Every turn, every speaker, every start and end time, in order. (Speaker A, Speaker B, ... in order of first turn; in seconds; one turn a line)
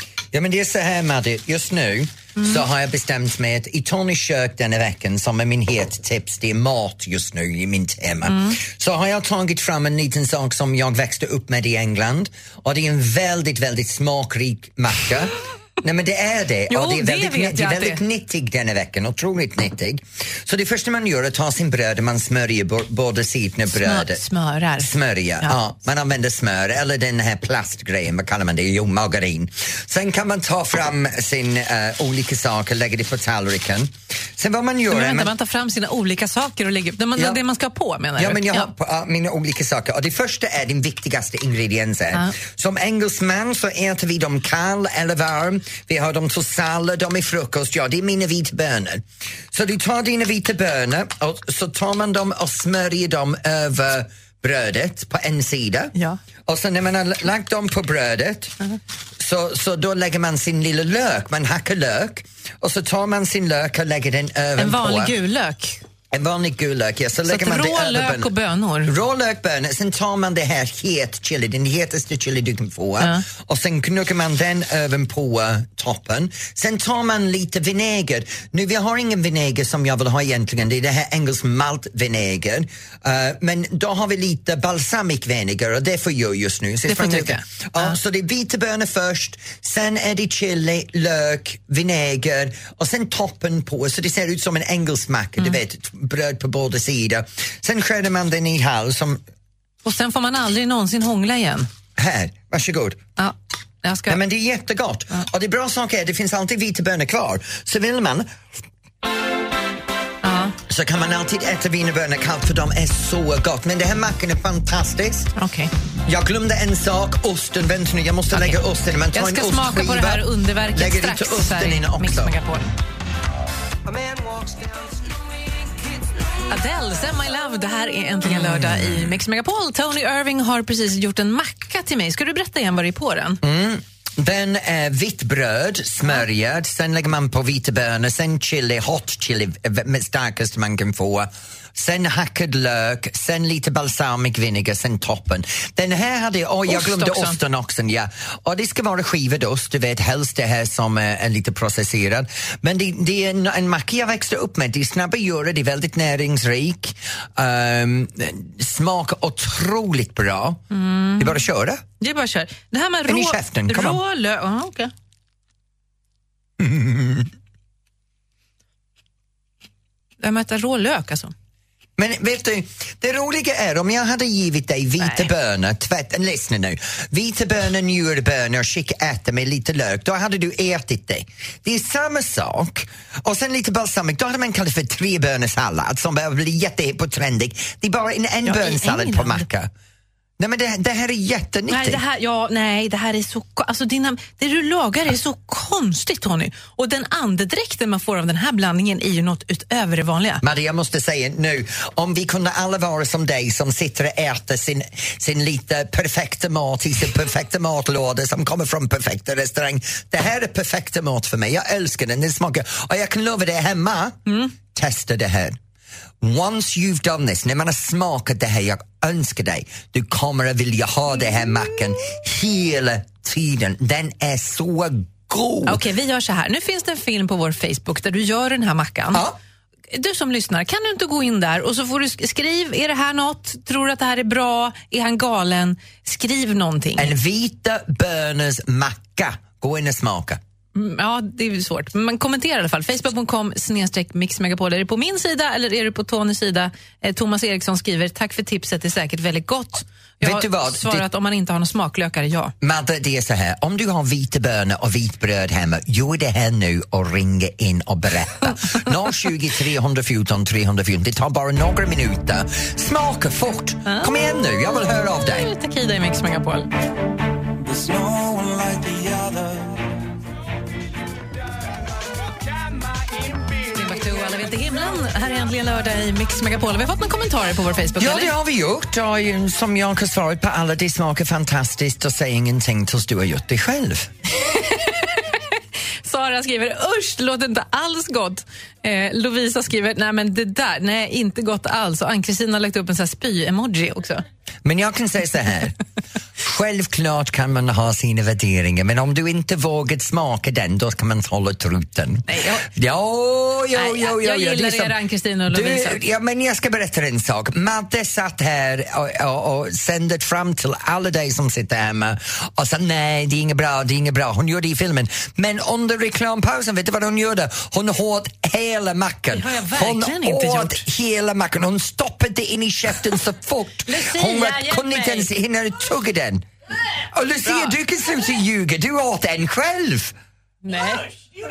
Speaker A: 0.3-24.2
Speaker B: 2.4-2.6
Speaker B: 8.3-8.6
Speaker B: 16.7-18.0
Speaker B: 23.7-25.6
Speaker A: 24.8-35.3
Speaker B: 34.9-38.7
Speaker A: 37.1-37.4
Speaker A: 38.2-55.9
Speaker A: 56.5-58.5
Speaker A: 59.2-65.1
Speaker B: 64.6-65.8
Speaker A: 66.1-68.3
Speaker B: 67.2-68.9
Speaker A: 68.8-99.2
Speaker B: 86.9-87.9
Speaker B: 99.8-101.7
Speaker A: 102.0-103.0
Speaker B: 103.2-104.2
Speaker A: 104.1-108.3
Speaker B: 110.2-110.5
Speaker A: 110.6-115.3
Speaker B: 115.3-115.7
Speaker A: 116.0-122.3
Speaker B: 118.3-118.6
Speaker B: 119.1-122.7
Speaker C: 124.0-125.1
Speaker B: 126.5-133.4
Speaker A: 128.2-129.1
Speaker A: 133.4-160.6
Speaker B: 146.7-147.4
Speaker B: 160.7-161.4
Speaker A: 161.2-161.8
Speaker B: 162.0-164.9
Speaker A: 163.1-164.0
Speaker A: 166.6-167.3
Speaker B: 170.2-171.3
Speaker A: 172.0-189.7
Speaker B: 175.0-175.3
Speaker B: 188.4-189.4
Speaker A: 190.4-192.0
Speaker B: 191.7-200.4
Speaker A: 200.4-215.6
Speaker B: 214.3-214.5
Speaker A: 216.2-225.8
Speaker B: 225.7-229.2
Speaker B: 229.9-237.1
Speaker A: 237.0-240.4
Speaker B: 240.7-252.5
Speaker A: 250.2-251.1
Speaker A: 252.6-265.5
Speaker B: 263.9-264.1
Speaker B: 265.2-266.7
Speaker C: 267.7-269.1
Speaker B: 273.7-278.3
Speaker A: 278.0-284.1
Speaker B: 284.4-294.2
Speaker A: 294.6-295.8
Speaker A: 296.4-305.0
Speaker B: 302.3-302.7
Speaker B: 303.7-306.0
Speaker A: 305.5-326.4
Speaker B: 319.3-320.8
Speaker B: 323.9-325.3
Speaker A: 327.1-330.1
Speaker B: 327.4-327.7
Speaker B: 330.6-331.1